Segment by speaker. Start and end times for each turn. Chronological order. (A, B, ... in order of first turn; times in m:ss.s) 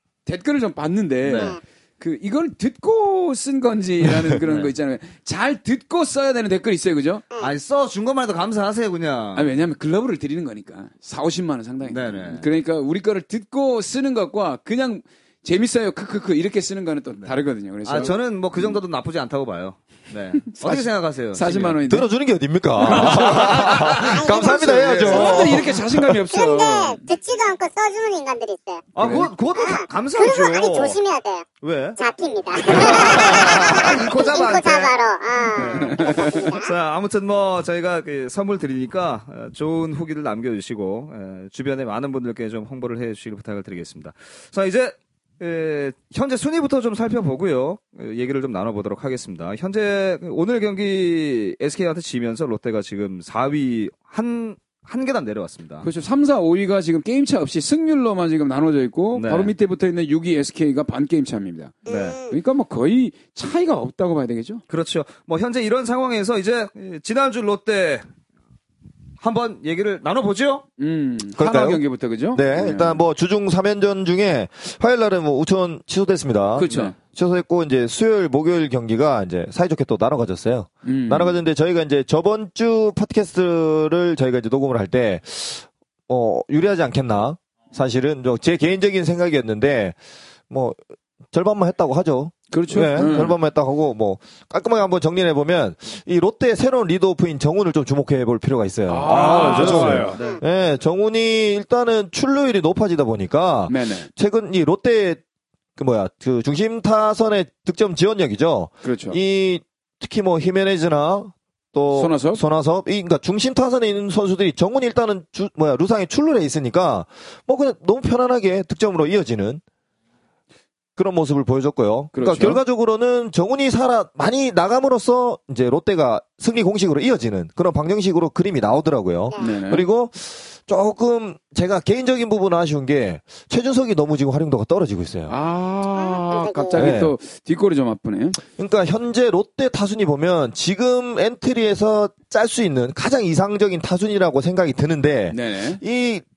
0:00.2-0:07.2 A
0:01.2-0:01.6 B
0:01.3-0:01.6 C
0:04.4-0:04.7 B
0:07.4-0:09.5 B
0:09.3-0:18.1 A
0:11.8-0:12.4 B
0:17.2-0:21.8 B
0:20.5-0:22.1 A
0:21.9-0:26.1 D
0:22.8-0:23.5 A
0:22.9-0:25.4 B
0:23.9-0:25.4 C
0:25.0-0:27.0 A
0:26.3-0:28.9 C
0:28.9-0:31.0 B
0:29.0-0:29.3 A
0:29.5-0:31.4 C
0:31.6-0:32.0 B
0:32.0-0:36.7 C
0:32.6-0:34.9 B
0:35.5-0:55.9 B
0:35.7-0:36.4 A
0:55.8-1:01.7 A
0:59.1-0:59.5 B
1:01.8-1:02.4 C
1:01.8-1:02.2 B
1:02.3-1:04.6 A
1:04.7-1:08.0 B
1:09.2-1:10.6 B
1:10.8-1:13.0 A
1:11.4-1:30.0 D
1:16.5-1:16.9 A
1:16.7-1:16.9 B
1:20.8-1:21.4 A
1:30.5-1:30.8 D
1:31.3-1:45.2 D
1:32.5-1:33.4 A
1:38.9-1:40.2 A
1:39.0-1:40.4 B
1:40.2-1:40.4 C
1:43.7-1:44.1 A
1:45.8-1:59.6 D
1:48.8-1:49.2 A
1:51.9-1:52.4 A
2:01.0-2:15.3 D
2:02.1-2:02.6 A
2:09.4-2:09.9 A
2:15.3-2:18.4 A
2:16.0-2:16.9 C
2:16.8-2:17.1 D
2:18.6-2:26.2 D
2:25.3-2:25.8 A